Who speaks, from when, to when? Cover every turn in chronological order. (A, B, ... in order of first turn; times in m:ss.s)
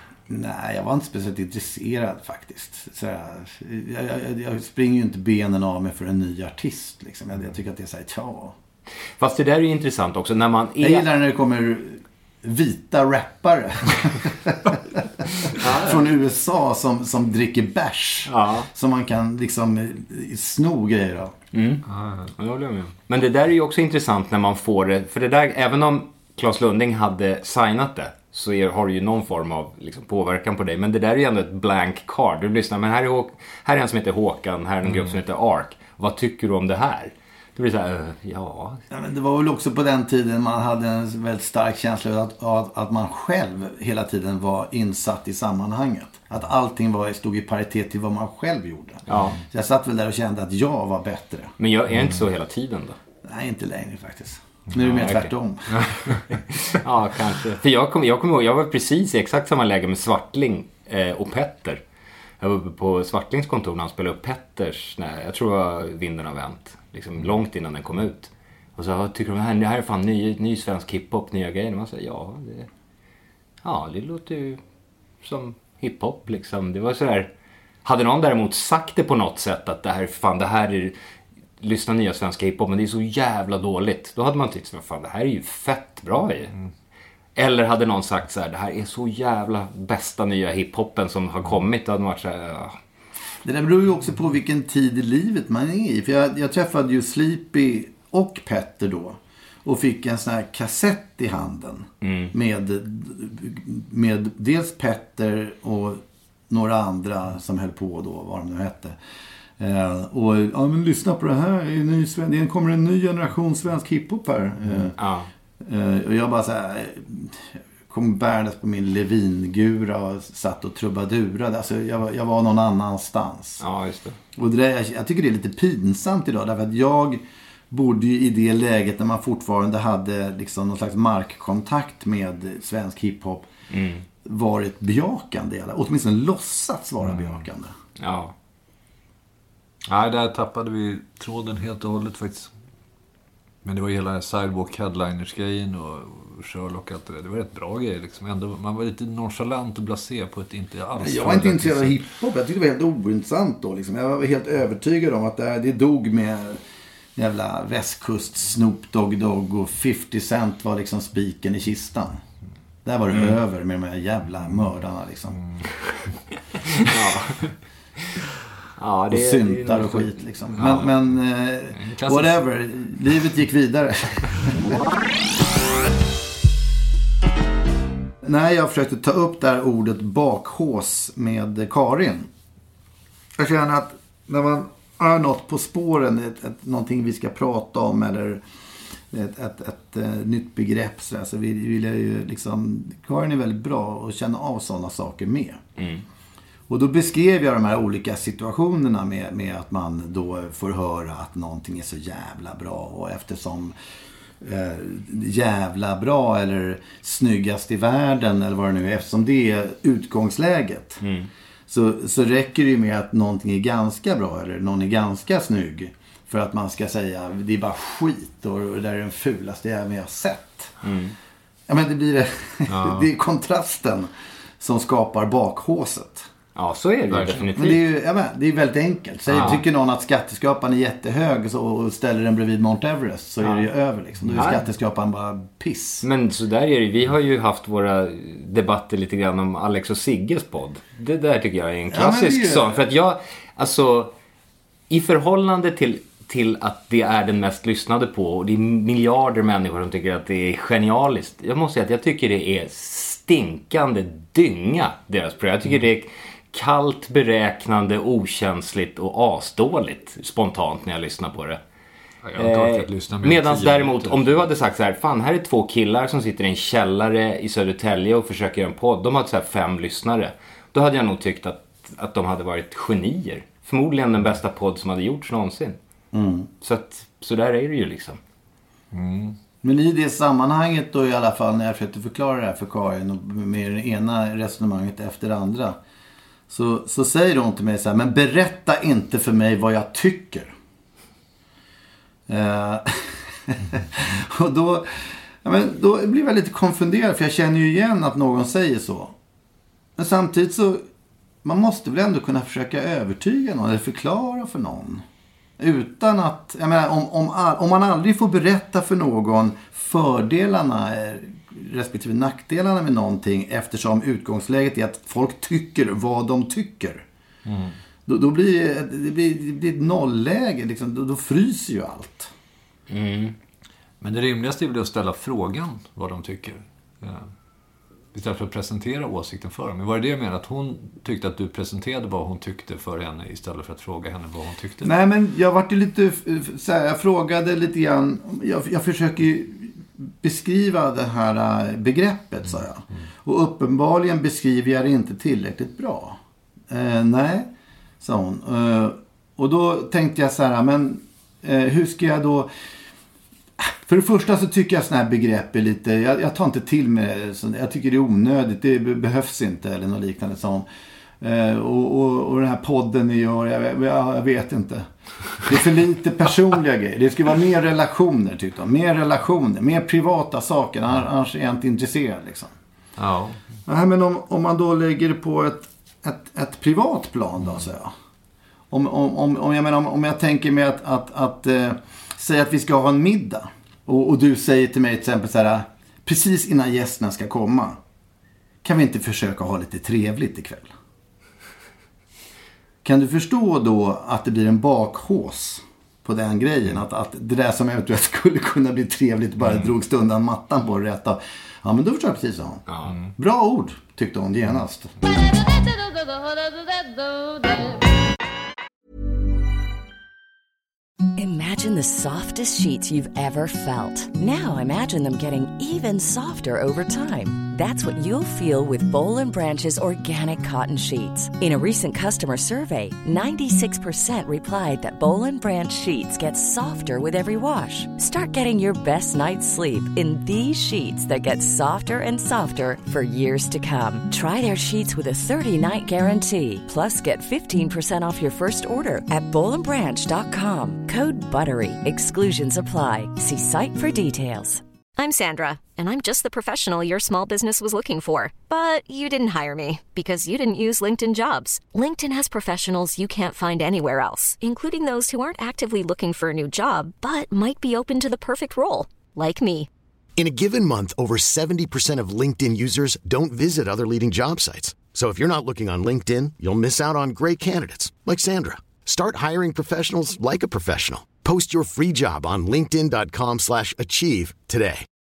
0:00.3-0:08.6 A
0:09.2-0:11.1 B
0:10.8-0:15.0 A
0:15.6-0:16.0 B
0:15.6-0:21.3 A
0:18.3-0:18.7 B
0:21.5-0:21.8 B
0:21.9-0:22.3 C
0:22.4-0:38.8 B
0:38.9-0:51.5 A
0:49.1-0:49.4 B
0:51.6-0:53.0 B
0:53.2-0:55.7 A
0:54.8-0:55.3 B
0:56.8-1:01.8 B
1:02.4-1:12.7 B
1:13.6-1:14.6 B
1:15.2-1:17.3 B
1:17.8-1:21.0 B
1:21.6-1:26.5 B
1:27.4-1:32.8 B
1:33.4-1:49.0 A
1:42.0-1:42.3 B
1:49.6-1:55.0 A
1:55.0-1:55.3 B
1:55.6-2:03.6 A
2:03.6-2:04.2 B
2:04.4-2:13.5 A
2:13.7-2:14.0 B
2:14.2-2:17.7 A
2:17.1-2:17.4 C
2:18.0-2:18.3 B
2:19.9-2:22.5 C
2:23.6-2:32.0 C
2:31.0-2:36.6 A
2:37.2-2:42.2 A
2:42.8-2:45.4 A
2:46.8-2:47.5 B
2:48.8-2:50.1 B
2:49.1-2:54.7 A
2:50.5-2:50.9 C
2:51.7-2:52.4 C
2:58.2-3:02.3 A
3:03.4-3:08.4 A
3:09.1-3:15.6 A
3:15.8-3:16.0 B
3:16.7-3:23.8 A
3:24.4-3:31.0 A
3:31.0-3:31.3 B
3:31.7-3:40.7 A
3:40.8-3:41.2 B
3:41.7-3:46.3 A
3:42.7-3:43.1 C
3:46.6-3:47.8 B
3:47.1-3:47.5 C
3:47.6-3:56.1 A
3:49.4-3:49.6 B
3:53.4-3:53.7 B
3:54.4-3:54.6 B
3:56.0-4:04.1 B
4:01.9-4:02.9 A
4:04.9-4:21.6 B
4:22.2-4:24.5 C
4:22.4-4:35.8 B
4:36.1-4:36.5 A
4:36.6-4:38.2 B
4:38.9-4:39.4 C
4:39.6-4:45.8 A
4:46.5-4:50.5 A
4:52.3-4:59.2 A
5:00.0-5:00.8 A
5:01.4-5:05.0 A
5:05.6-5:17.0 A
5:17.5-5:17.8 C
5:18.1-5:22.3 A
5:22.9-5:23.4 B
5:24.0-5:27.3 C
5:28.1-5:34.9 C
5:34.8-5:46.2 A
5:46.7-5:47.5 A
5:48.0-5:52.5 A
5:53.6-6:00.7 A
6:01.2-6:04.9 A
6:05.4-6:12.5 A
6:13.0-6:13.4 C
6:13.7-6:17.9 A
6:18.7-6:27.8 A
6:28.6-6:30.7 A
6:32.8-6:42.6 A
6:42.7-6:42.9 B
6:43.2-6:44.9 A
6:51.2-7:24.6 D
7:25.0-7:39.7 E
7:40.2-7:54.8 F